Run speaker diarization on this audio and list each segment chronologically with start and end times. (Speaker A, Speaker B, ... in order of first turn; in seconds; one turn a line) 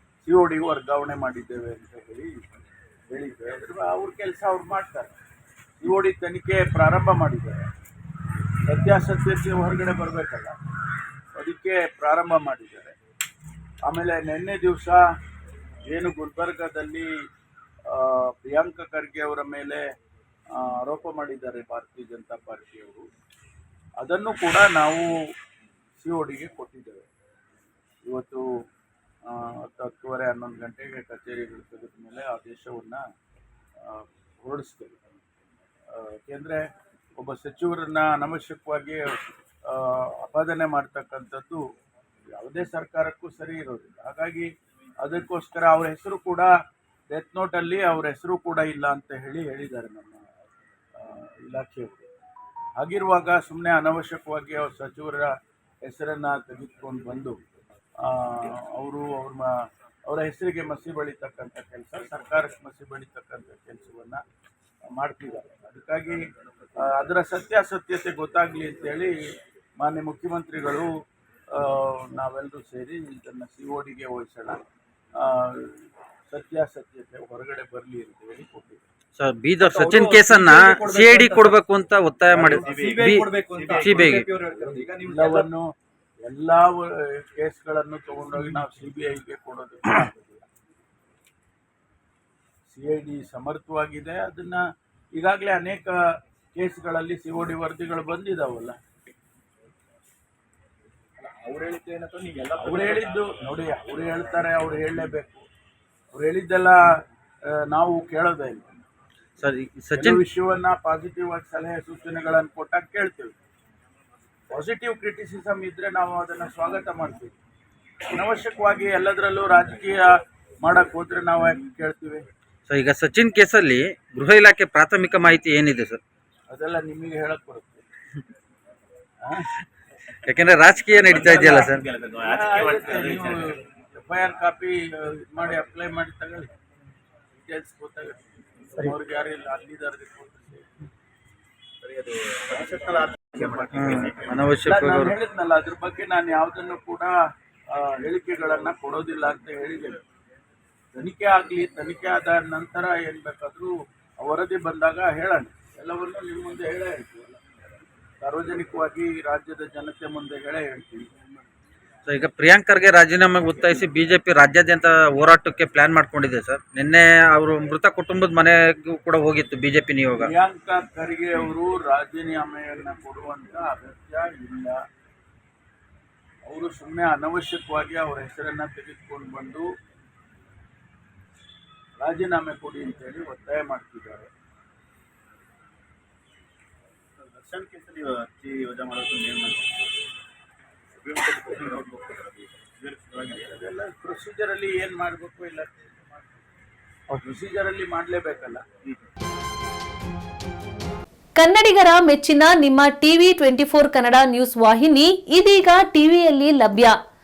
Speaker A: 0.2-2.4
Speaker A: 3.1-5.1
Speaker A: 5.8-7.7
Speaker A: 8.7-10.6
Speaker A: 11.3-12.9
Speaker A: 13.9-15.0
Speaker A: 15.8-17.1
Speaker A: 17.9-19.8
Speaker A: 20.6-23.1
Speaker A: 24.0-25.1
Speaker A: 26.0-27.1
Speaker A: 28.1-28.4
Speaker A: 29.3-33.0
Speaker A: 33.8-35.0
Speaker A: 35.9-41.6
Speaker A: 42.4-44.5
Speaker A: 45.0-46.5
Speaker A: 47.1-50.2
Speaker A: 51.0-52.1
Speaker A: 52.8-57.4
Speaker A: 58.0-64.2
Speaker A: 64.9-70.9
Speaker A: 71.5-74.6
Speaker A: 75.2-78.8
Speaker B: 79.2-84.3
Speaker C: 79.6-81.6
Speaker C: 82.3-85.5
Speaker A: 84.7-85.7
Speaker A: 86.2-90.4
Speaker A: 92.7-94.6
Speaker A: 95.2-95.9
Speaker A: 96.5-98.8
Speaker C: 101.2-103.4
Speaker A: 102.6-105.4
Speaker A: 106.1-106.9
Speaker A: 107.7-108.7
Speaker B: 109.4-110.2
Speaker A: 109.9-113.3
Speaker A: 114.5-117.3
Speaker A: 118.1-122.2
Speaker B: 122.7-126.0
Speaker A: 126.5-127.8
Speaker A: 129.2-129.5
Speaker B: 130.2-131.9
Speaker C: 131.0-133.5
Speaker A: 131.3-136.5
Speaker A: 137.4-138.2
Speaker A: 138.7-140.8
Speaker C: 141.8-144.5
Speaker A: 143.4-143.8
Speaker B: 143.7-145.1
Speaker A: 144.6-147.2
Speaker A: 147.7-150.0
Speaker A: 150.9-157.4
Speaker A: 158.2-161.1
Speaker B: 162.1-170.3
Speaker A: 170.2-174.8
Speaker A: 176.4-179.7
Speaker A: 182.0-184.3
Speaker C: 187.2-189.7
Speaker C: 191.0-193.5
Speaker A: 193.2-195.9
Speaker A: 197.1-198.6
Speaker D: 201.3-207.0